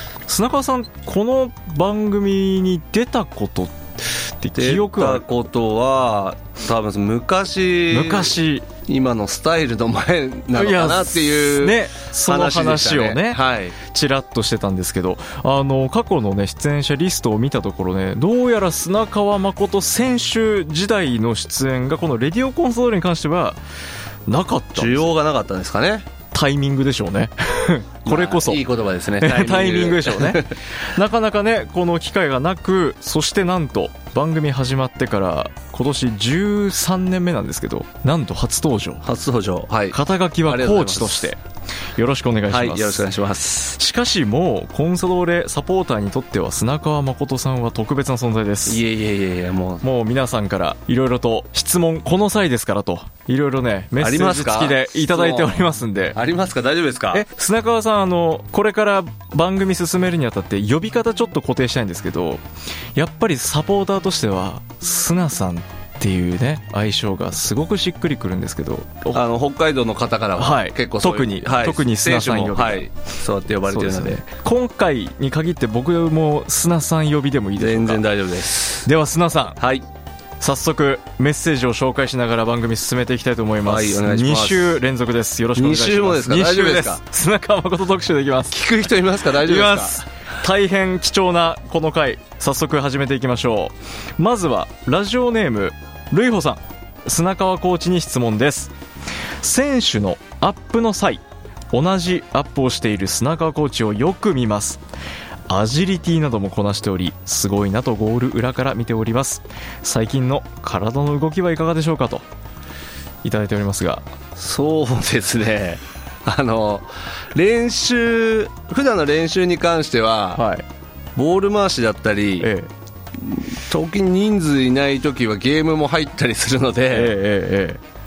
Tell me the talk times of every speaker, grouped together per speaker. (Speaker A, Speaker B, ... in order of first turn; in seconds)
Speaker A: 0.3-5.2, 7.9-8.7, 10.5-23.6, 24.3-25.1, 26.3-28.6, 29.2-39.0, 39.9-41.4, 42.0-43.0, 43.8-48.8, 49.8-56.2, 57.1-62.4, 62.9-69.2, 70.4-72.8, 73.7-78.0, 78.8-79.6, 80.4-88.6, 89.3-98.7, 99.4-104.8, 105.5-112.2, 113.2-114.0, 120.3-120.7, 122.4-122.7, 126.9-127.8
Speaker B: 4.5-8.3, 8.9-13.8, 24.8-26.1, 28.0-30.5, 39.0-41.3, 42.5-43.8, 48.7-49.8, 54.0-57.2, 69.1-74.2, 77.5-78.9, 79.6-79.8, 83.6-84.8, 85.5-87.0, 88.5-90.0, 114.3-120.4, 121.2-122.5, 123.2-127.2